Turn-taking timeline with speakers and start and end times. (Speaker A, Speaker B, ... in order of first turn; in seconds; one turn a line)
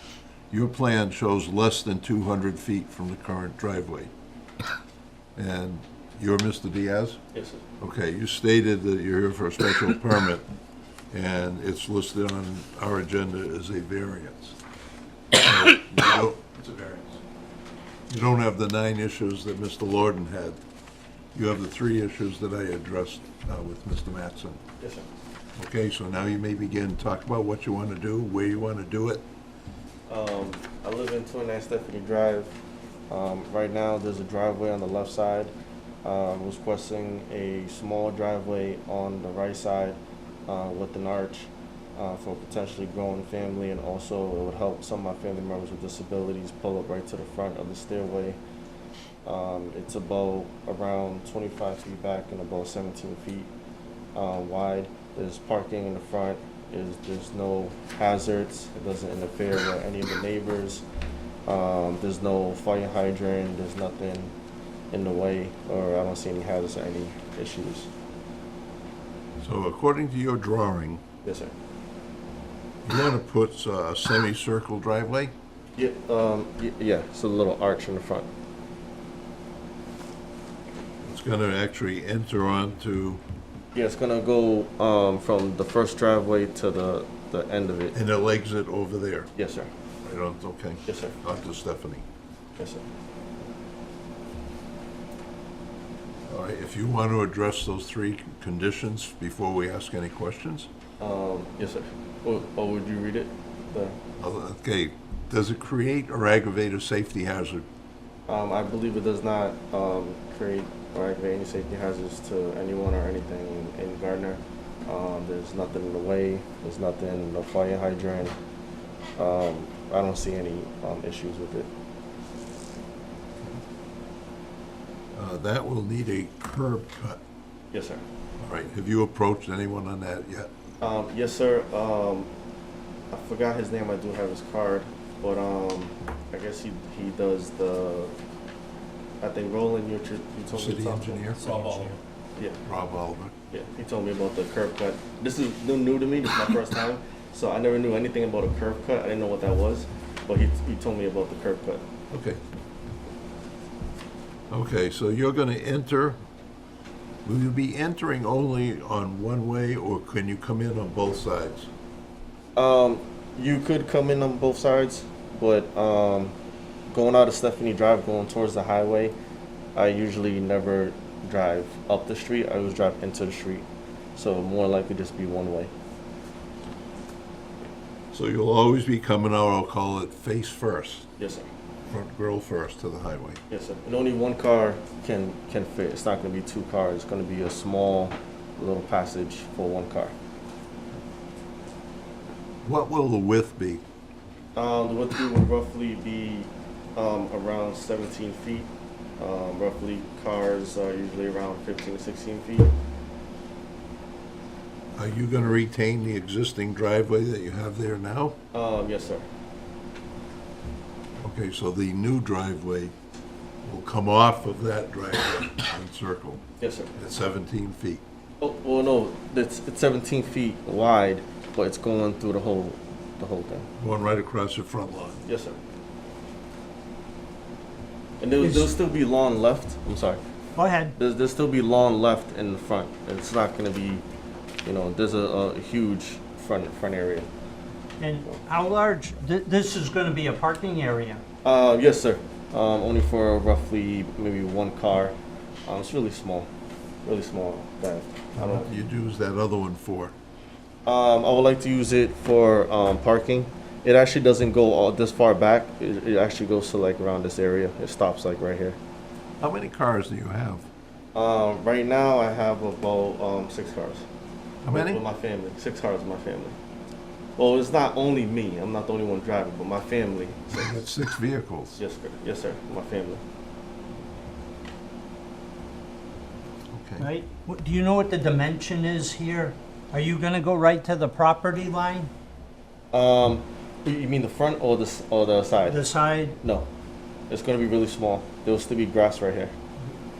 Speaker A: 0.5-4.1
Speaker A: 5.4-7.2
Speaker B: 7.3-7.6
Speaker A: 7.8-10.4
Speaker A: 11.1-14.6
Speaker A: 15.3-17.2
Speaker A: 18.1-20.6
Speaker A: 21.3-24.6
Speaker B: 24.8-25.1
Speaker A: 25.6-29.2
Speaker B: 30.1-32.5
Speaker B: 33.1-35.5
Speaker B: 36.0-48.4
Speaker B: 49.2-53.5
Speaker B: 54.1-60.8
Speaker B: 61.5-64.3
Speaker B: 64.9-67.9
Speaker A: 69.4-71.0
Speaker B: 71.2-71.5
Speaker A: 72.8-75.3
Speaker B: 75.8-78.3
Speaker A: 81.0-83.2
Speaker B: 83.7-87.9
Speaker A: 87.9-89.3
Speaker B: 89.3-89.7
Speaker A: 90.0-92.0
Speaker B: 90.8-91.2
Speaker B: 92.6-92.8
Speaker A: 96.3-100.7
Speaker B: 101.0-104.0
Speaker A: 104.2-107.7
Speaker B: 108.3-118.3
Speaker B: 119.2-121.7
Speaker A: 125.1-127.2
Speaker B: 127.7-128.0
Speaker A: 128.4-130.5
Speaker B: 130.8-132.3
Speaker B: 133.1-138.1
Speaker B: 139.2-141.8
Speaker A: 140.5-142.0
Speaker B: 142.4-142.6
Speaker A: 142.7-143.3
Speaker B: 143.5-151.8
Speaker A: 152.1-152.4
Speaker A: 154.5-156.2
Speaker A: 157.2-161.7
Speaker B: 162.6-166.3
Speaker B: 166.9-169.1
Speaker B: 169.8-173.7
Speaker B: 174.2-175.7
Speaker A: 178.1-181.1
Speaker B: 181.2-181.5
Speaker A: 181.9-183.4
Speaker B: 183.5-190.1
Speaker A: 192.6-193.8
Speaker B: 194.6-202.7
Speaker A: 204.9-208.4
Speaker B: 208.5-209.3
Speaker A: 211.2-212.9
Speaker A: 213.6-216.4
Speaker B: 216.6-216.9
Speaker A: 216.9-218.0
Speaker B: 218.4-223.7
Speaker A: 223.8-225.2
Speaker B: 225.2-225.6
Speaker B: 228.2-230.2
Speaker C: 228.4-228.7
Speaker C: 230.6-230.9
Speaker B: 231.0-234.0
Speaker B: 234.7-237.3
Speaker C: 238.0-241.2
Speaker B: 241.4-245.2
Speaker B: 245.7-246.5
Speaker B: 247.1-248.7
Speaker A: 248.4-250.1
Speaker B: 250.9-258.8
Speaker A: 259.4-260.7
Speaker B: 261.1-264.1
Speaker A: 264.6-265.0
Speaker B: 264.7-266.6
Speaker B: 267.4-270.9
Speaker A: 270.6-271.8
Speaker B: 271.8-273.2
Speaker A: 276.7-277.1
Speaker C: 277.0-282.1
Speaker B: 282.9-286.7
Speaker C: 285.7-286.4
Speaker B: 287.3-289.5